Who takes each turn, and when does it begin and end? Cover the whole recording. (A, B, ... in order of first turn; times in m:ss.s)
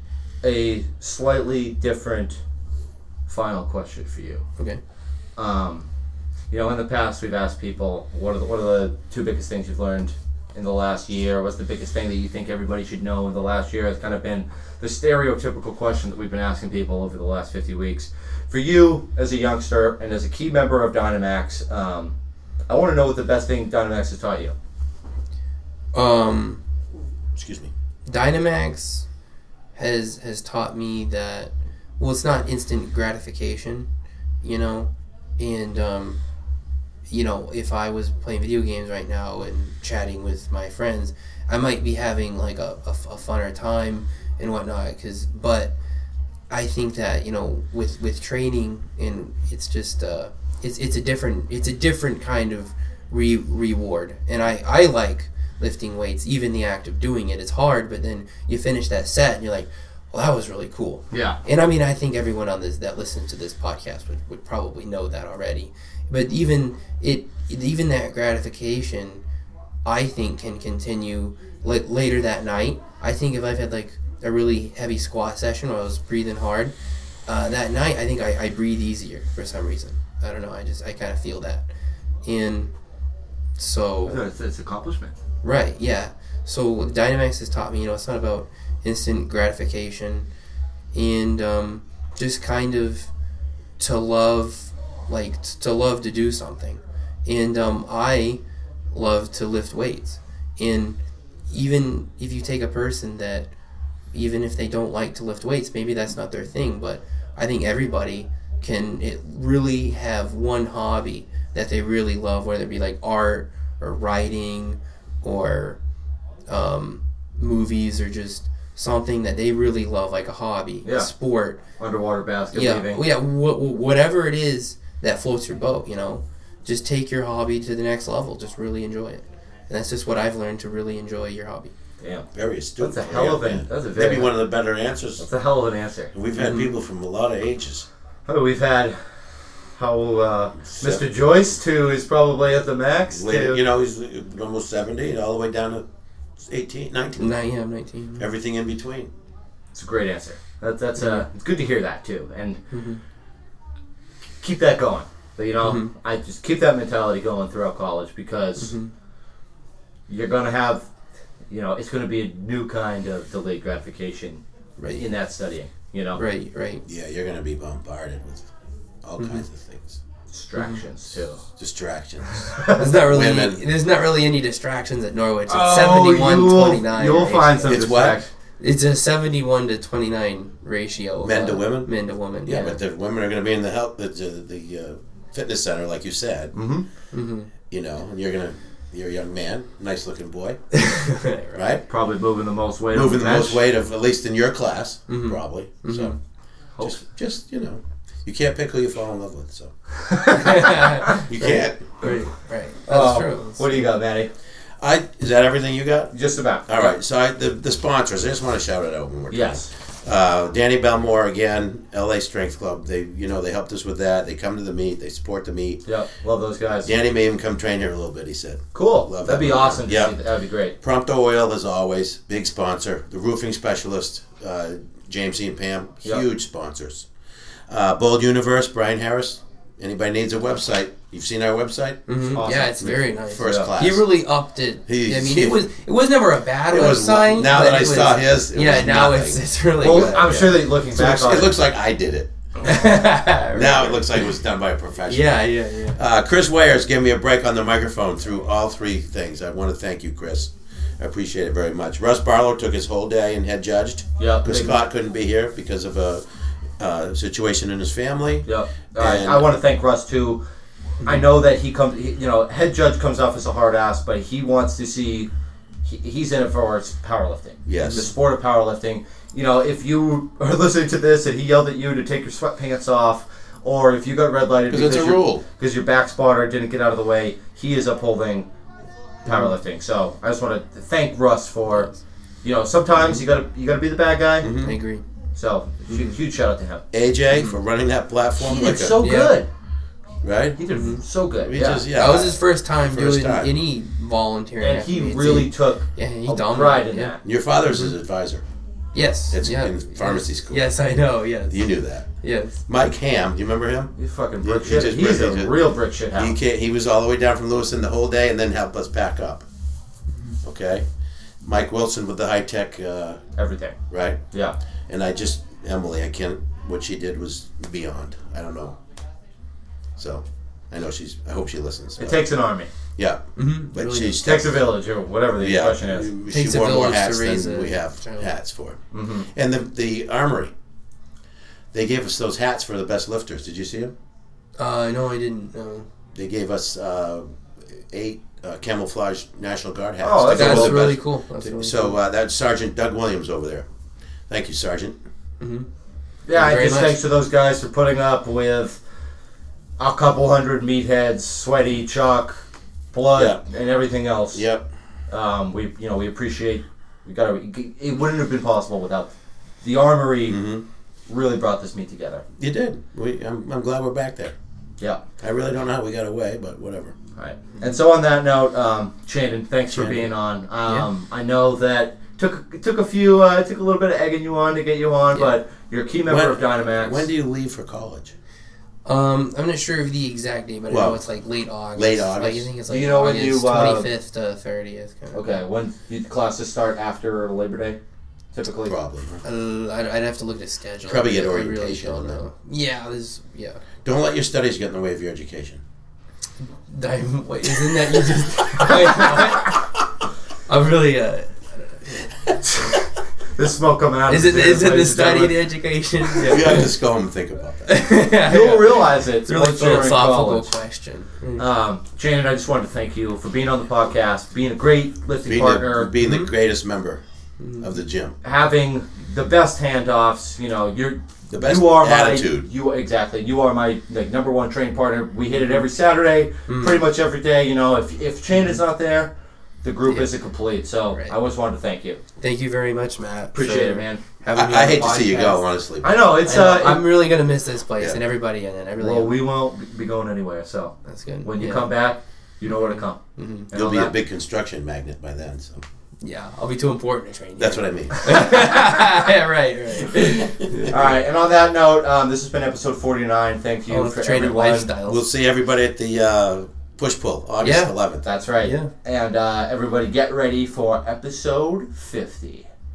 0:00.4-0:02.4 A
0:03.3-0:04.4 A
0:05.4-0:05.9 A
0:06.5-0:22.1 A
0:22.7-0:24.5 A
0:25.9-0:26.6 B
0:27.3-0:27.7 C
0:28.1-0:29.0 B
0:29.7-0:33.9 B
0:34.4-0:36.2 B
0:37.1-0:45.7 B
0:46.5-1:09.2 B
1:01.1-1:01.4 A
1:09.8-1:16.7 B
1:17.2-1:21.7 B
1:22.2-1:22.7 B
1:23.6-1:24.2 B
1:24.1-1:25.2 A
1:25.4-1:30.3 B
1:30.9-1:33.1 B
1:33.8-1:38.4 B
1:38.9-1:43.5 B
1:44.1-1:55.8 B
1:56.5-2:01.6 B
2:00.8-2:01.1 A
2:01.8-2:03.0 A
2:02.5-2:11.7 B
2:12.0-2:12.3 A
2:12.3-2:15.3 C
2:12.8-2:14.4 A
2:15.2-2:16.1 A
2:16.1-2:17.8 C
2:16.4-2:16.7 B
2:18.2-2:19.0 A
2:19.8-2:23.6 A
2:20.6-2:21.0 C
2:23.1-2:25.8 C
2:26.4-2:27.4 C
2:27.2-2:28.2 B
2:28.2-2:29.1 C
2:29.7-2:32.6 A
2:31.0-2:31.2 B
2:32.7-2:33.0 B
2:34.4-2:38.7 A
2:35.6-2:35.9 B
2:38.6-2:38.9 B
2:40.1-2:40.9 A
2:41.5-2:44.4 A
2:44.8-2:45.0 B
2:44.9-2:46.2 A
2:46.1-2:46.8 B
2:46.8-2:48.5 C
2:49.0-2:50.0 C
2:49.2-2:49.4 B
2:50.3-2:51.4 A
2:51.6-2:53.6 C
2:52.3-2:53.0 A
2:52.7-2:57.6 B
2:55.5-2:58.3 A
2:57.6-2:58.2 C
2:58.6-3:02.8 B
3:01.2-3:01.9 C
3:02.4-3:06.5 C
3:06.5-3:06.8 A
3:07.1-3:07.5 B
3:07.7-3:10.6 C
3:10.7-3:11.6 B
3:11.5-3:11.8 C
3:11.9-3:13.6 A
3:12.9-3:16.1 C
3:15.1-3:16.1 B
3:16.8-3:19.7 C
3:20.0-3:21.2 A
3:20.3-3:23.9 B
3:21.2-3:21.9 C
3:22.9-3:24.3 A
3:24.8-3:26.1 C
3:26.1-3:27.0 A
3:26.7-3:35.8 C
3:29.3-3:29.7 A
3:35.8-3:36.9 A
3:36.8-3:40.2 C
3:38.7-3:40.7 A
3:40.8-3:47.1 C
3:47.7-3:54.0 C
3:52.1-4:00.6 B
3:52.4-3:53.7 A
3:54.9-3:55.7 C
3:56.7-3:59.4 C
3:59.8-4:01.6 A
4:00.9-4:02.3 C
4:02.6-4:04.4 B
4:03.5-4:16.2 C
4:05.1-4:06.0 B
4:14.2-4:14.7 A
4:16.8-4:19.4 C
4:18.4-4:20.4 A
4:21.0-4:25.3 A
4:25.8-4:38.5 A
4:27.6-4:28.1 C
4:27.8-4:28.1 B
4:34.7-4:35.4 C
4:39.2-4:41.9 A
4:39.2-4:39.5 B
4:42.4-4:44.5 A
4:43.0-4:43.2 B
4:44.4-4:44.8 C
4:44.6-4:45.0 B
4:45.3-4:46.8 A
4:45.9-4:46.1 B
4:46.9-4:49.0 C
4:47.3-4:47.6 B
4:48.4-4:49.5 A
4:49.0-4:49.4 B
4:50.2-4:50.6 C
4:50.6-4:51.8 A
4:50.7-4:51.0 B
4:51.4-4:53.5 C
4:51.9-4:57.1 B
4:54.6-4:57.2 A
4:57.2-4:58.4 C
4:57.6-4:57.9 B
4:58.9-5:01.7 B
4:59.3-5:00.6 C
5:01.5-5:02.1 C
5:02.2-5:02.6 B
5:02.7-5:05.6 C
5:04.0-5:06.3 A
5:06.1-5:09.4 C
5:10.4-5:10.8 C
5:11.4-5:13.2 C
5:13.4-5:13.8 A
5:13.9-5:14.2 C
5:14.3-5:14.6 A
5:14.9-5:18.8 C
5:20.0-5:22.3 C
5:22.0-5:22.7 A
5:23.0-5:24.7 C
5:23.4-5:24.2 B
5:24.2-5:26.1 A
5:25.4-5:30.5 C
5:26.3-5:28.3 B
5:28.9-5:29.3 A
5:31.7-5:33.9 C
5:34.6-5:35.9 B
5:36.1-5:43.6 C
5:40.0-5:41.0 A
5:40.3-5:42.0 B
5:44.3-5:45.0 C
5:45.4-5:45.7 B
5:46.2-5:48.8 A
5:46.3-5:47.0 B
5:49.8-5:54.4 A
5:53.1-5:53.4 C
5:54.3-5:54.6 C
5:55.1-6:00.4 A
6:00.2-6:00.6 C
6:01.1-6:02.2 A
6:02.4-6:04.3 C
6:05.2-6:06.9 C
6:07.2-6:17.1 A
6:09.7-6:10.1 C
6:16.1-6:18.1 C
6:18.8-6:25.4 B
6:20.7-6:21.0 C
6:21.7-6:22.5 C
6:22.7-6:23.9 A
6:25.1-6:27.8 A
6:28.3-6:28.7 A
6:28.6-6:29.2 C
6:29.2-6:33.6 B
6:30.8-6:32.2 C
6:33.8-6:35.6 C
6:36.7-6:39.7 B
6:40.5-6:42.1 B
6:42.4-6:45.3 A
6:44.1-6:46.7 B
6:46.2-6:47.7 C
6:47.6-6:51.5 B
6:48.1-6:50.5 A
6:51.4-6:55.9 A
6:55.2-6:57.0 C
6:56.0-6:56.3 B
6:57.4-6:57.7 B
6:57.6-6:58.1 C
6:58.2-7:09.1 A
7:01.3-7:02.5 C
7:06.5-7:06.8 B
7:08.3-7:08.6 B
7:09.6-7:12.0 A
7:12.2-7:15.4 B
7:13.3-7:14.0 A
7:14.3-7:16.0 C
7:15.8-7:17.0 A
7:16.2-7:19.2 B
7:18.8-7:23.0 A
7:20.8-7:21.7 B
7:22.4-7:23.5 B
7:23.5-7:23.9 A
7:23.5-7:25.6 C
7:26.0-7:30.8 B
7:27.4-7:28.3 C
7:29.9-7:34.7 A
7:30.4-7:30.8 C
7:33.7-7:35.0 B
7:34.8-7:38.0 C
7:37.4-7:37.7 B
7:38.0-7:42.4 A
7:38.4-7:38.7 B